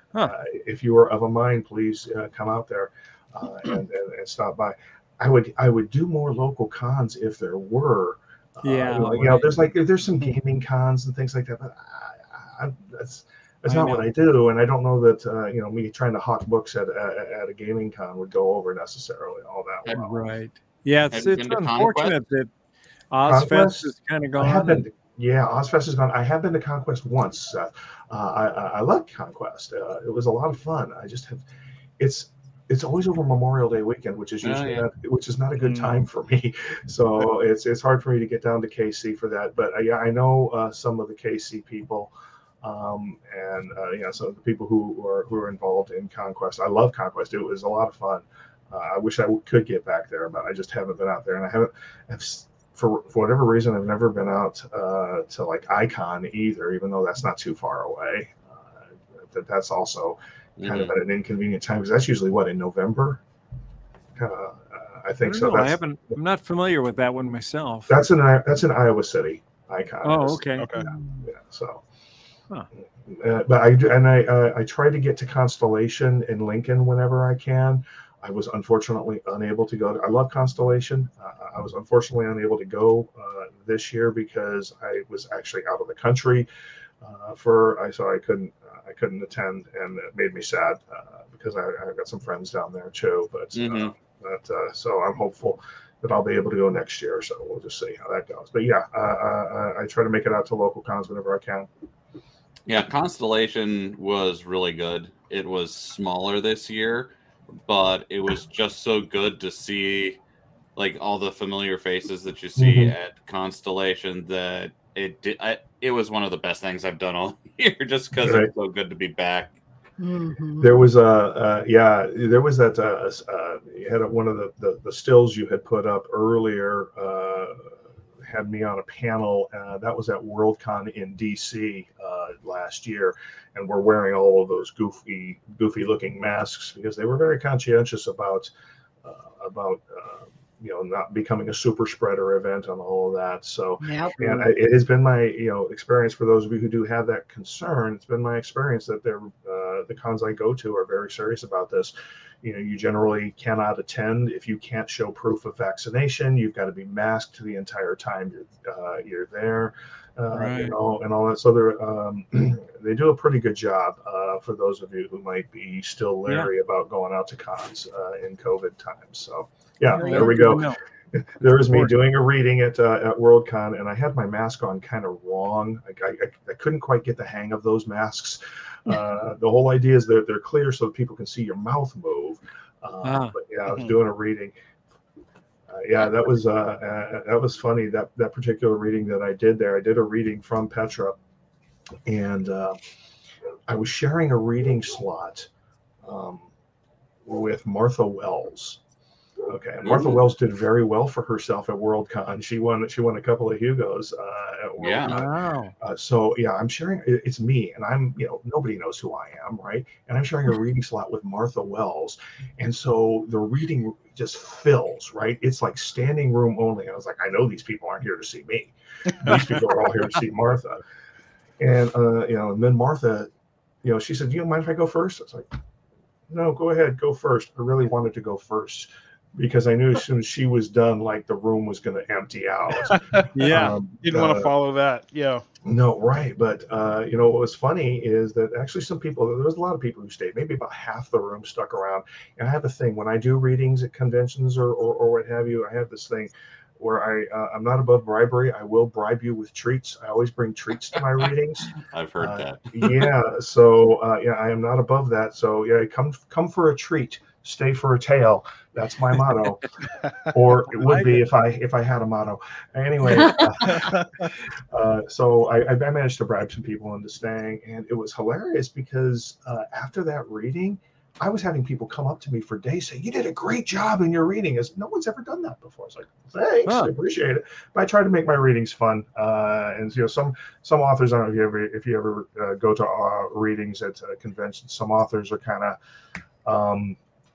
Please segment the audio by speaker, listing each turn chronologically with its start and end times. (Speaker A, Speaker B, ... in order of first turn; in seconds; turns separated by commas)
Speaker A: 0.2-20.3, Speaker B: 8.6-9.6, Speaker B: 13.7-14.1, Speaker B: 19.9-22.5, Speaker C: 21.1-22.2, Speaker B: 23.1-24.8, Speaker A: 23.2-31.4, Speaker A: 32.0-63.2, Speaker C: 34.4-34.9, Speaker D: 35.6-36.0, Speaker C: 60.6-61.0, Speaker A: 64.2-65.8, Speaker B: 65.2-67.9, Speaker A: 67.9-71.8, Speaker B: 70.0-71.3, Speaker D: 70.6-70.9, Speaker A: 73.0-86.5, Speaker A: 87.0-101.7, Speaker C: 93.5-93.9, Speaker C: 102.7-107.1, Speaker C: 107.7-110.2, Speaker C: 110.8-119.5, Speaker A: 112.6-113.0, Speaker A: 118.2-118.5, Speaker E: 120.0-120.9, Speaker A: 120.6-127.7, Speaker A: 128.2-138.5, Speaker A: 139.0-184.5, Speaker E: 143.8-144.5, Speaker B: 160.3-160.7, Speaker B: 169.9-170.8, Speaker E: 170.0-170.6, Speaker B: 171.7-172.0, Speaker B: 183.0-183.3, Speaker A: 185.7-191.2, Speaker A: 192.1-192.8, Speaker A: 193.7-195.5, Speaker A: 196.0-196.5, Speaker A: 197.3-198.8, Speaker A: 199.4-220.8, Speaker C: 199.8-200.2, Speaker C: 204.8-205.2, Speaker B: 205.1-205.7, Speaker A: 221.6-223.3, Speaker A: 223.8-225.5, Speaker A: 226.3-234.5, Speaker D: 232.9-235.4, Speaker B: 233.3-233.8, Speaker A: 235.6-259.6, Speaker C: 251.9-253.1, Speaker A: 260.3-285.8, Speaker B: 260.8-261.2, Speaker E: 263.2-263.5, Speaker D: 263.6-264.3, Speaker B: 276.7-276.9, Speaker A: 286.4-287.0